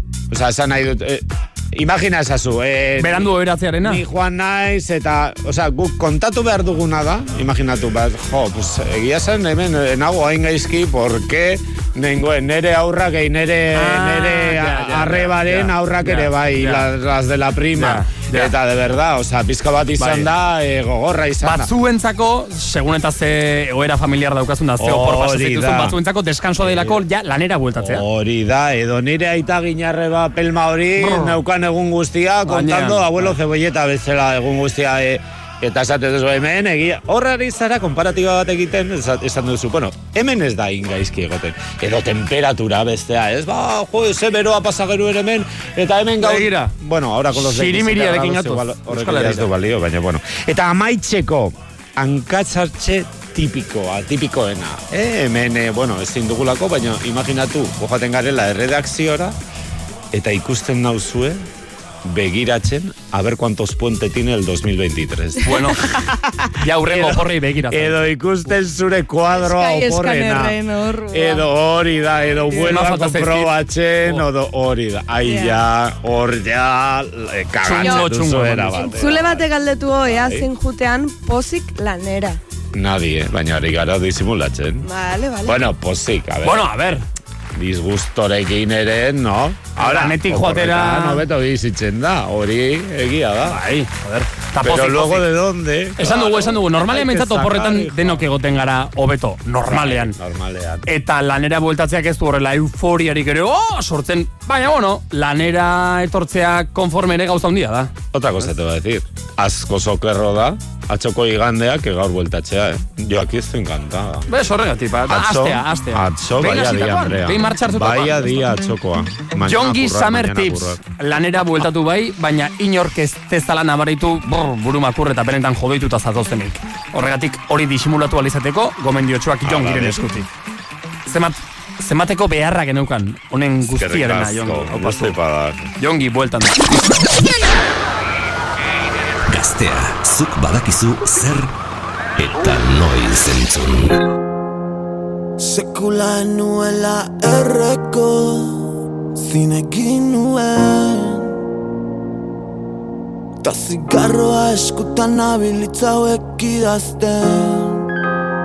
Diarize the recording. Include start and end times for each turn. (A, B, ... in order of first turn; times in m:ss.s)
0:00.3-0:21.7 A
0:03.0-0:04.0 B
0:13.8-0:16.9 B
0:17.8-0:18.5 B
0:20.0-0:20.3 B
0:21.4-0:28.0 B
0:24.8-0:26.0 A
0:26.6-0:27.0 A
0:27.8-0:59.4 A
0:31.0-0:31.4 B
0:32.4-0:33.4 B
0:46.2-0:46.7 B
0:47.3-0:49.5 B
1:00.1-1:01.4 A
1:02.0-1:06.1 A
1:05.4-1:05.9 B
1:06.6-1:08.1 B
1:06.9-1:10.6 A
1:09.4-1:11.5 C
1:11.1-1:19.5 A
1:12.6-1:14.2 B
1:15.2-1:15.6 C
1:17.6-1:19.1 B
1:17.8-1:18.1 C
1:18.7-1:22.4 C
1:20.1-1:20.5 A
1:22.7-1:24.9 A
1:24.8-1:25.6 C
1:25.4-1:26.7 A
1:26.4-1:27.0 B
1:27.5-1:33.6 A
1:29.8-1:31.2 B
1:33.5-1:35.3 B
1:34.6-1:38.3 A
1:36.0-1:40.2 B
1:39.7-1:40.8 A
1:40.9-1:47.9 B
1:48.1-1:54.3 A
1:54.3-1:58.3 B
1:55.1-2:00.8 A
1:59.4-2:10.3 B
2:09.4-2:10.1 A
2:11.1-2:15.2 B
2:13.7-2:15.7 A
2:15.8-2:16.8 B
2:19.3-2:21.5 D
2:22.2-2:24.0 D
2:25.4-2:31.4 E
2:33.4-2:37.9 E